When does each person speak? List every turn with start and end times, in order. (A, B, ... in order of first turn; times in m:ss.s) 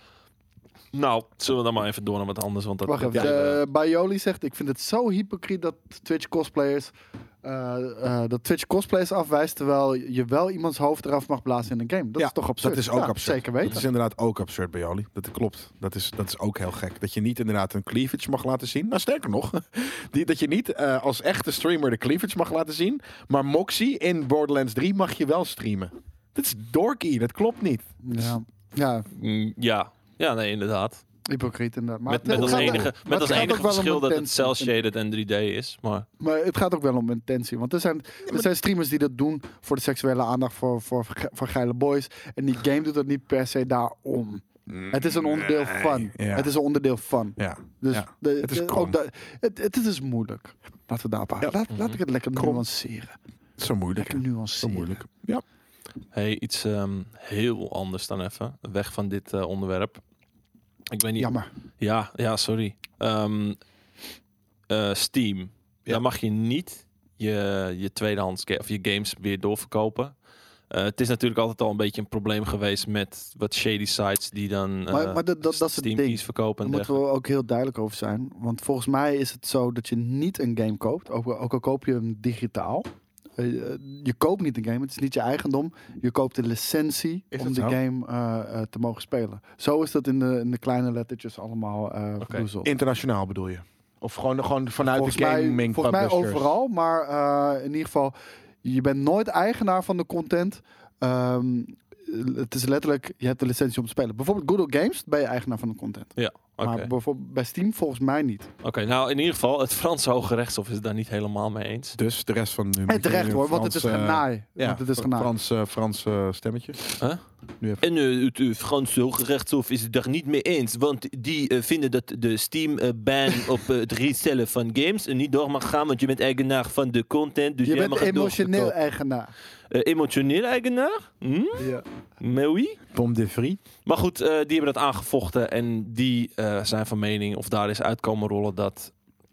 0:00.9-0:03.6 A
0:02.8-0:13.8 B
0:12.2-0:27.9 C
0:28.0-0:29.0 B
0:29.1-0:31.0 A
0:31.3-0:34.8 B
0:32.1-0:36.0 A
0:32.2-0:33.6 C
0:36.2-0:53.2 B
0:44.7-0:46.5 C
0:47.4-0:49.0 C
0:52.3-0:52.6 C
0:53.6-0:55.4 C
0:54.0-0:55.0 B
0:56.1-1:00.0 A
1:00.9-1:03.6 A
1:01.2-1:01.5 B
1:04.7-1:10.2 A
1:10.7-1:17.0 A
1:14.9-1:32.7 B
1:27.3-1:27.8 C
1:32.6-1:36.5 C
1:34.9-1:48.5 B
1:46.2-1:46.9 A
1:48.6-1:52.0 A
1:51.9-1:56.9 C
1:52.9-1:55.3 B
1:57.8-2:08.7 A
2:07.6-2:09.3 B
2:09.7-2:12.8 A
2:11.6-2:11.8 B
2:12.9-2:13.6 C
2:13.8-2:18.9 A